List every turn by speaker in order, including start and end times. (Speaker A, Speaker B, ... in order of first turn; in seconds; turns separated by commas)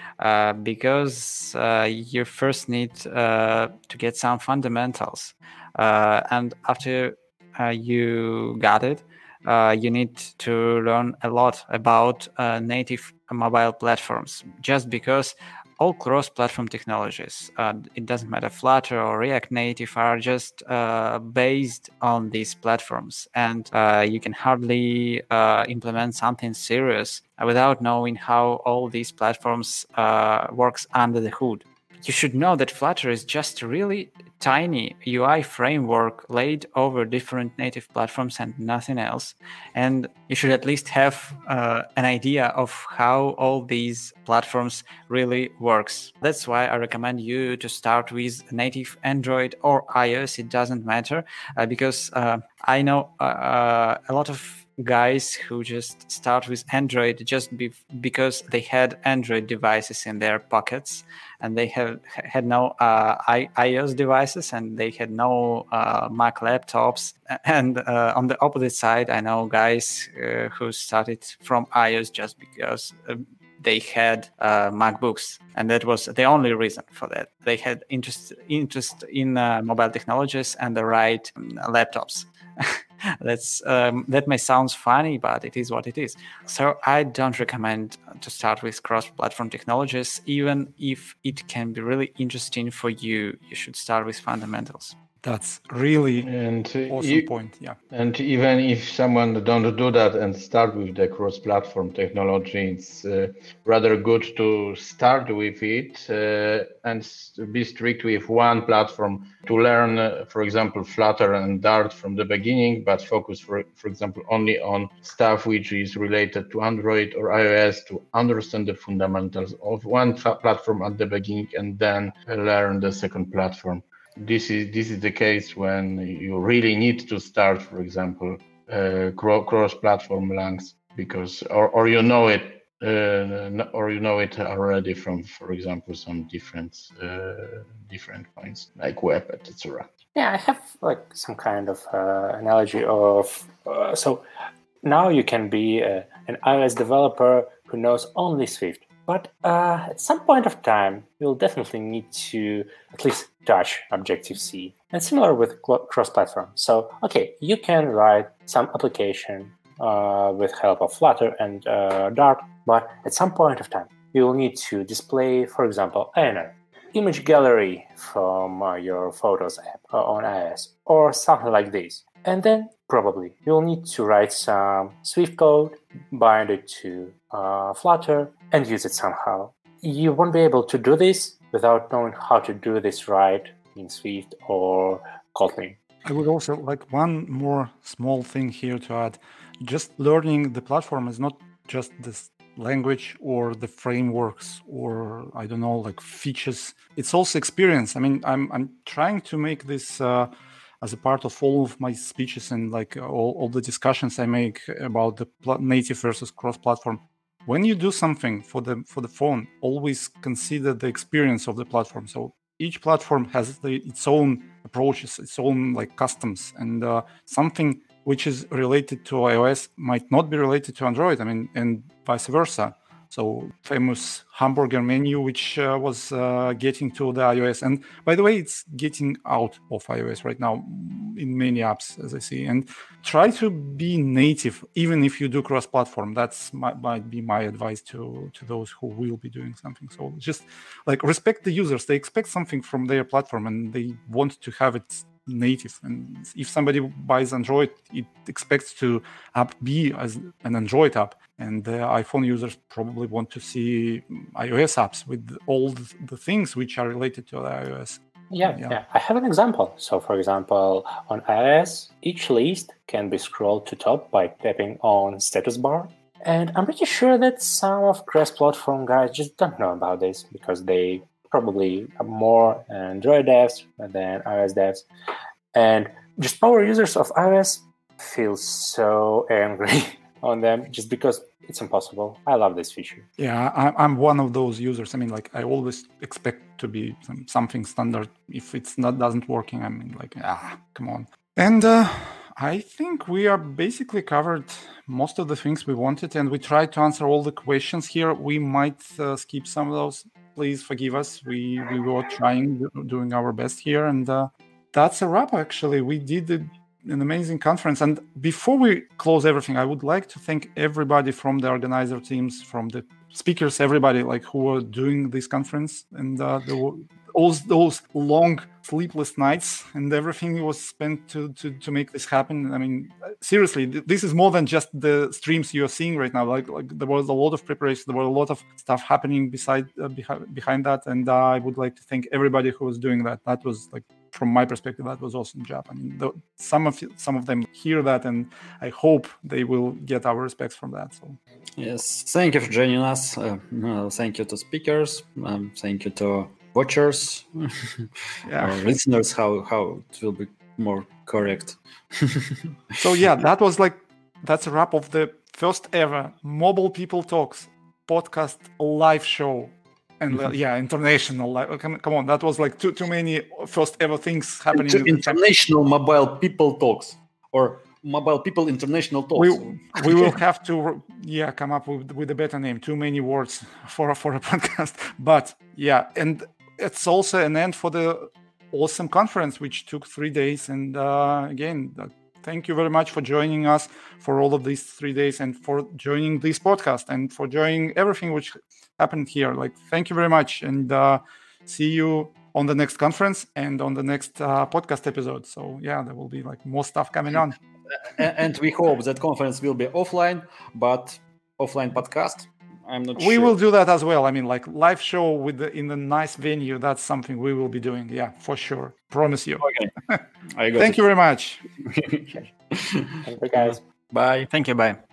Speaker A: 0.2-95.0, Speaker B: 95.2-96.3, Speaker C: 96.2-97.3, Speaker B: 96.9-97.8, Speaker C: 97.9-139.9, Speaker D: 140.1-144.2, Speaker D: 144.8-185.8, Speaker B: 186.0-200.3, Speaker B: 200.8-258.8, Speaker D: 258.3-274.9, Speaker D: 275.5-283.1, Speaker B: 283.2-341.2, Speaker E: 341.6-352.5, Speaker B: 348.2-348.7, Speaker B: 352.8-365.2, Speaker E: 364.5-370.1, Speaker B: 369.1-397.4, Speaker E: 397.7-403.3, Speaker B: 402.9-410.0, Speaker E: 409.4-409.7, Speaker E: 410.3-410.8, Speaker B: 410.6-411.4, Speaker E: 411.6-414.3, Speaker D: 413.0-413.6, Speaker A: 414.3-414.8